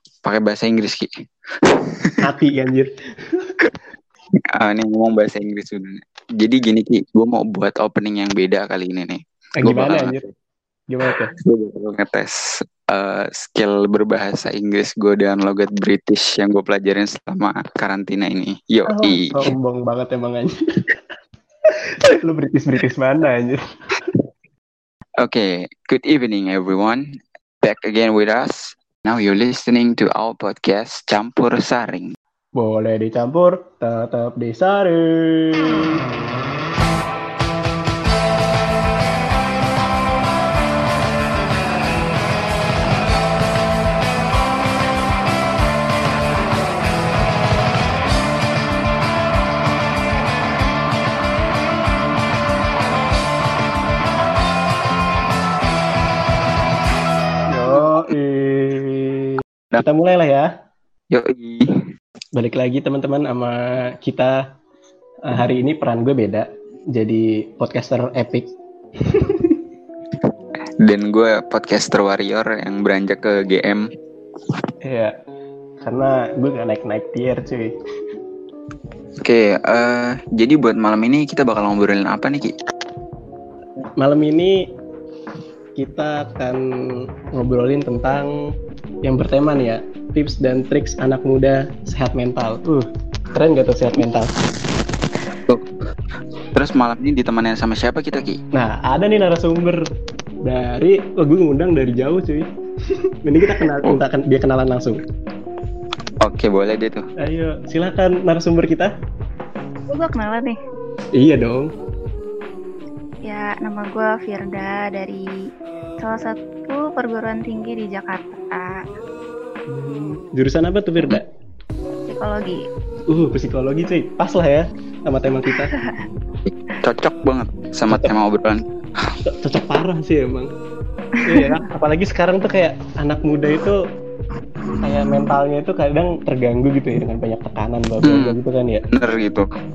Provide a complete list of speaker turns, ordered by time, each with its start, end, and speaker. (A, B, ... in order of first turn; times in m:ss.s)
0:00.2-0:01.1 A
0:02.2-0:03.5 B
0:04.6-0:10.1 A
0:09.6-0:10.2 B
0:10.9-0:11.3 B
0:11.4-0:12.3 A
0:12.9-0:19.5 A
0:18.9-0:21.0 B
0:22.0-0:23.6 B
0:25.2-0:27.0 A
0:27.6-0:32.1 A
0:32.6-0:36.0 B
0:57.5-1:00.5 B
1:01.1-1:01.7 A
1:02.4-1:04.4 B
1:05.3-1:08.5 B
1:09.1-1:09.6 B
1:10.8-1:13.8 A
1:14.8-1:15.1 B
1:15.8-1:17.7 B
1:19.2-1:22.5 A
1:24.0-1:24.6 B
1:25.8-1:26.6 B
1:27.3-1:28.3 B
1:29.0-1:34.3 B
1:36.5-1:38.4 A
1:38.5-1:39.8 B
1:40.4-1:42.5 B
1:43.2-1:45.0 B
1:46.2-1:47.0 A
1:47.2-1:48.9 B
1:49.9-1:50.6 C
1:51.1-1:51.7 B
1:53.3-1:55.2 C
1:56.0-1:58.8 C
1:59.7-2:01.2 B
2:02.1-2:02.6 C
2:03.1-2:05.7 B
2:05.5-2:06.0 C
2:06.8-2:08.6 A
2:07.9-2:08.1 B
2:09.2-2:10.5 B
2:11.2-2:11.6 C
2:11.2-2:13.8 B
2:14.8-2:18.8 B
2:18.0-2:18.4 A
2:18.9-2:19.4 A